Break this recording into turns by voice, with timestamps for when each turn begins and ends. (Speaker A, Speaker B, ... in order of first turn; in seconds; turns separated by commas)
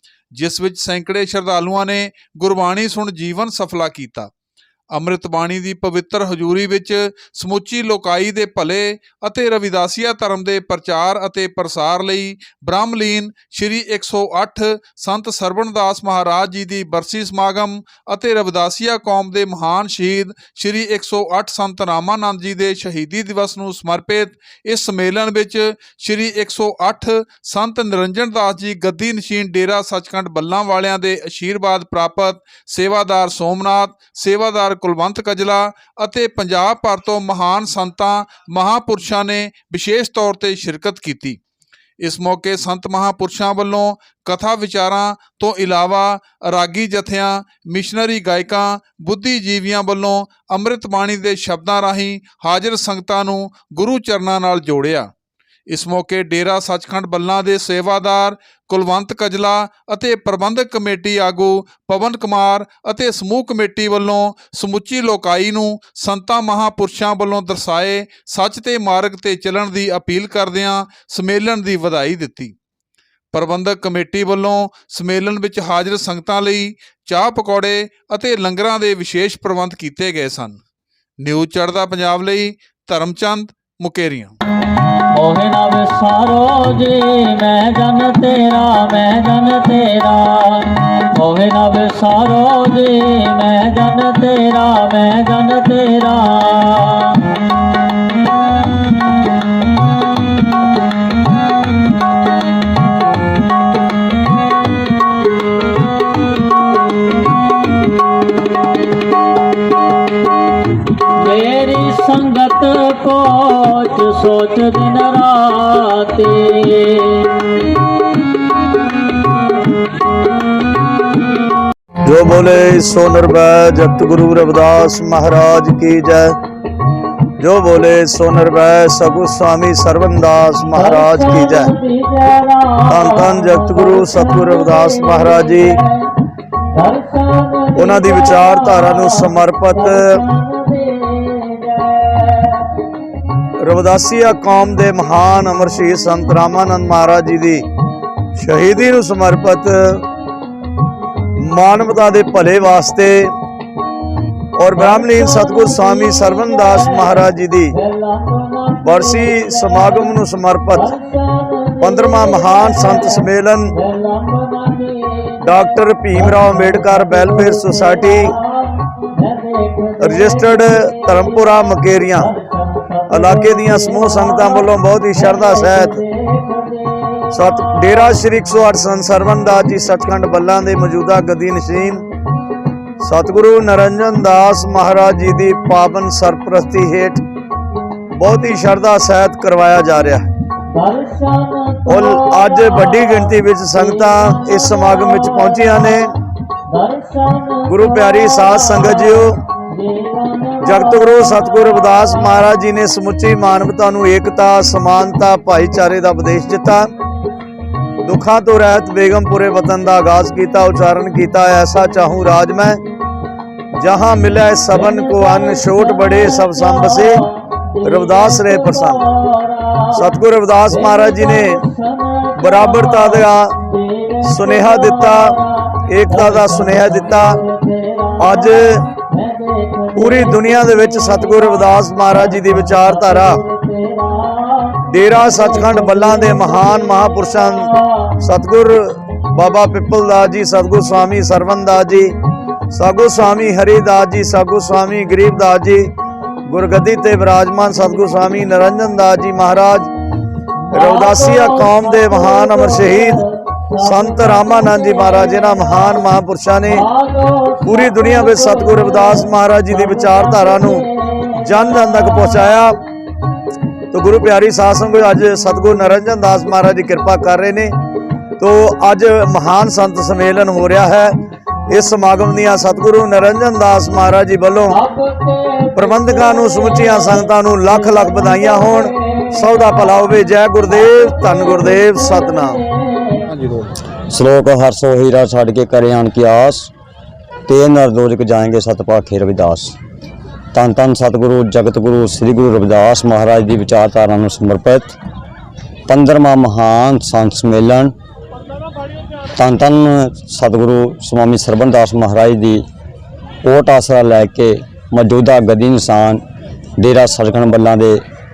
Speaker A: 0.3-4.3, Speaker A: 4.9-41.4, Speaker A: 42.0-55.1, Speaker A: 55.7-72.5, Speaker A: 73.3-80.6, Speaker A: 81.2-84.3, Speaker B: 85.1-97.4, Speaker B: 111.2-117.4, Speaker C: 122.0-126.4, Speaker C: 127.4-131.7, Speaker B: 130.8-135.8, Speaker C: 132.9-135.8, Speaker B: 136.7-139.1, Speaker C: 137.8-140.3, Speaker B: 139.9-142.8, Speaker C: 143.6-147.7, Speaker C: 148.4-150.0, Speaker C: 151.4-153.3, Speaker C: 154.6-157.8, Speaker B: 154.8-157.1, Speaker B: 157.8-160.0, Speaker C: 158.8-161.0, Speaker B: 160.8-163.1, Speaker C: 161.8-163.8, Speaker B: 163.8-165.4, Speaker C: 165.4-168.4, Speaker B: 166.3-170.6, Speaker C: 170.0-172.3, Speaker B: 172.2-174.6, Speaker C: 173.1-176.0, Speaker B: 175.2-177.3, Speaker C: 177.3-182.0, Speaker C: 183.0-187.2, Speaker C: 188.2-190.3, Speaker B: 190.7-193.2, Speaker C: 191.9-196.1, Speaker B: 194.2-195.8, Speaker B: 196.7-199.1, Speaker C: 197.7-199.4, Speaker B: 199.7-202.1, Speaker C: 200.6-206.9, Speaker C: 208.0-212.8, Speaker C: 213.8-217.3, Speaker B: 214.8-217.2, Speaker C: 217.8-219.1, Speaker B: 217.9-219.9, Speaker C: 219.9-221.6, Speaker B: 220.7-223.2, Speaker C: 222.4-223.6, Speaker B: 223.7-225.4, Speaker C: 224.2-227.4, Speaker B: 226.2-228.5, Speaker C: 228.2-228.9, Speaker B: 229.1-231.4, Speaker C: 229.9-233.4, Speaker B: 232.2-236.5, Speaker C: 234.8-242.2, Speaker C: 242.7-245.9, Speaker C: 246.5-249.9, Speaker C: 250.7-253.3, Speaker B: 250.7-255.8, Speaker C: 253.8-256.9, Speaker B: 256.7-261.3, Speaker C: 257.6-262.8, Speaker C: 263.9-267.8, Speaker C: 268.4-271.2, Speaker C: 271.7-274.8, Speaker B: 274.8-277.2, Speaker C: 275.8-282.6, Speaker B: 278.0-278.9, Speaker B: 283.0-283.3, Speaker D: 284.1-286.7, Speaker D: 287.5-289.8, Speaker D: 290.5-295.0, Speaker D: 295.9-297.9, Speaker D: 299.3-302.6, Speaker D: 303.4-306.2, Speaker D: 306.8-308.0